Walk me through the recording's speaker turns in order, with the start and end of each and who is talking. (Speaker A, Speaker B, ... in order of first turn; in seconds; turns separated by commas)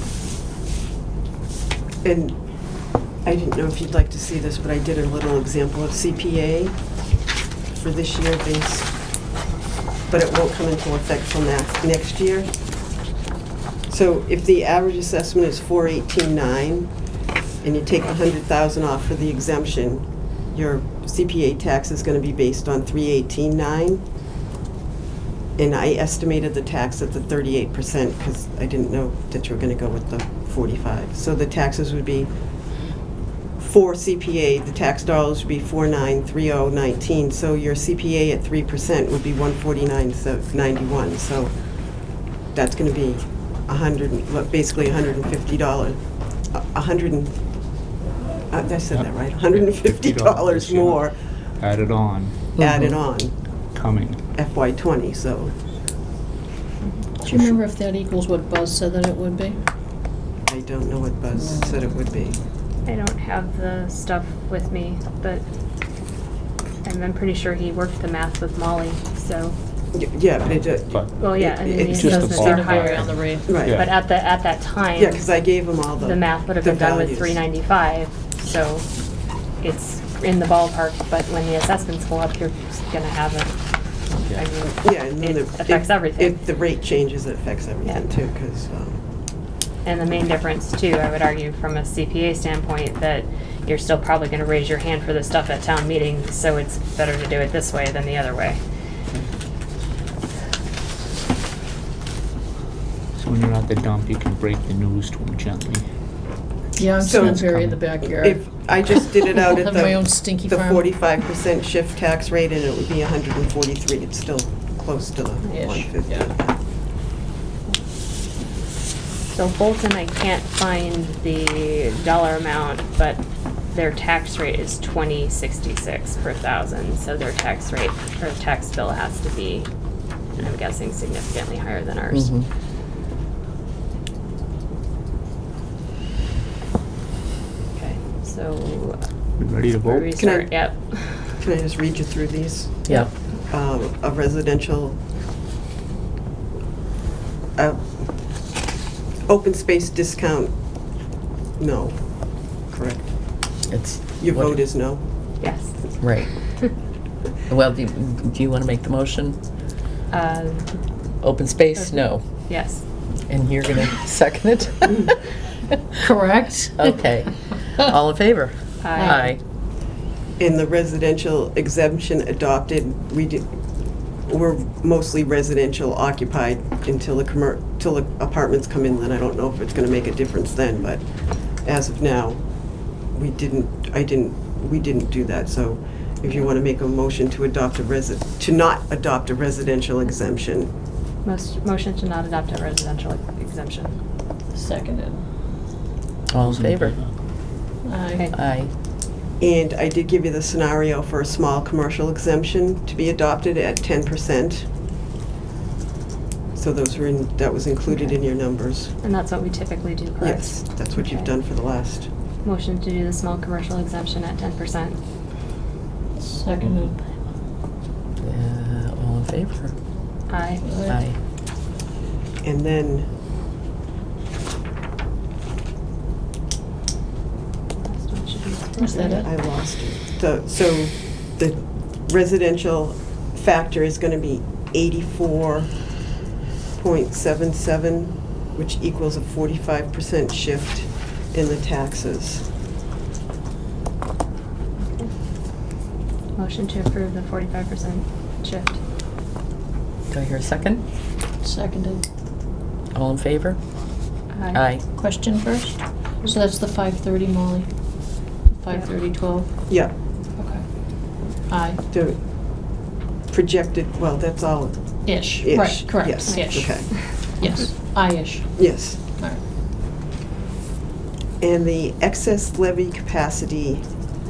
Speaker A: 2.0-6.9, Speaker A: 7.7-8.9, Speaker A: 10.1-12.5, Speaker A: 13.9-16.9, Speaker A: 17.6-24.0, Speaker A: 25.6-32.3, Speaker A: 33.6-47.6, Speaker A: 48.5-51.2, Speaker B: 48.9-52.4, Speaker C: 52.6-53.0, Speaker A: 52.6-53.6, Speaker B: 53.7-54.2, Speaker A: 54.3-55.5, Speaker D: 57.2-59.6, Speaker A: 60.5-62.4, Speaker D: 61.4-61.7, Speaker E: 62.8-65.4, Speaker E: 66.8-69.5, Speaker A: 69.9-72.1, Speaker B: 70.5-71.2, Speaker E: 71.2-78.9, Speaker B: 72.0-74.0, Speaker D: 72.0-73.6, Speaker A: 73.5-73.8, Speaker A: 75.0-77.4, Speaker E: 79.6-83.5, Speaker E: 84.1-86.4, Speaker A: 84.8-89.0, Speaker E: 87.8-88.1, Speaker E: 89.8-98.6, Speaker B: 103.1-105.8, Speaker D: 106.8-111.0, Speaker A: 107.0-107.5, Speaker B: 107.2-107.8, Speaker A: 108.0-116.6, Speaker D: 115.4-116.3, Speaker E: 119.3-129.7, Speaker E: 130.3-132.3, Speaker C: 132.1-132.5, Speaker E: 137.7-139.0, Speaker B: 139.4-140.1, Speaker E: 139.8-141.3, Speaker A: 140.1-145.0, Speaker C: 142.8-143.1, Speaker E: 142.9-143.1, Speaker A: 147.6-148.5, Speaker A: 149.3-151.0, Speaker A: 151.6-153.1, Speaker C: 153.7-154.6, Speaker A: 154.2-155.0, Speaker E: 155.4-156.7, Speaker C: 156.0-156.5, Speaker C: 157.5-159.4, Speaker E: 160.1-160.8, Speaker C: 161.2-162.5, Speaker E: 161.7-162.8, Speaker C: 163.3-165.2, Speaker D: 165.9-167.0, Speaker C: 166.8-169.4, Speaker E: 168.8-169.2, Speaker D: 168.9-169.3, Speaker A: 170.4-173.5, Speaker A: 174.0-190.7, Speaker E: 191.2-193.9, Speaker D: 194.5-195.2, Speaker C: 196.3-197.0, Speaker B: 196.4-197.1, Speaker D: 197.8-198.3, Speaker C: 198.3-198.7, Speaker A: 199.4-204.7, Speaker A: 206.5-208.9, Speaker E: 209.0-211.3, Speaker A: 210.2-212.1, Speaker E: 212.4-215.0, Speaker D: 216.2-217.0, Speaker C: 218.2-219.7, Speaker E: 220.3-220.8, Speaker D: 220.6-221.0, Speaker C: 220.9-221.2, Speaker A: 222.4-223.1, Speaker E: 227.8-229.2, Speaker D: 228.8-229.3, Speaker A: 229.0-236.0, Speaker A: 236.8-242.4, Speaker E: 244.8-245.1, Speaker E: 246.3-248.8, Speaker C: 250.1-250.8, Speaker D: 251.4-252.1, Speaker C: 252.9-253.6, Speaker E: 254.3-254.7, Speaker C: 254.5-254.8, Speaker D: 254.9-259.5, Speaker E: 260.4-260.6, Speaker D: 261.5-261.8, Speaker A: 261.9-267.3, Speaker D: 265.0-269.4, Speaker E: 266.2-267.1, Speaker A: 268.5-269.2, Speaker A: 271.4-273.8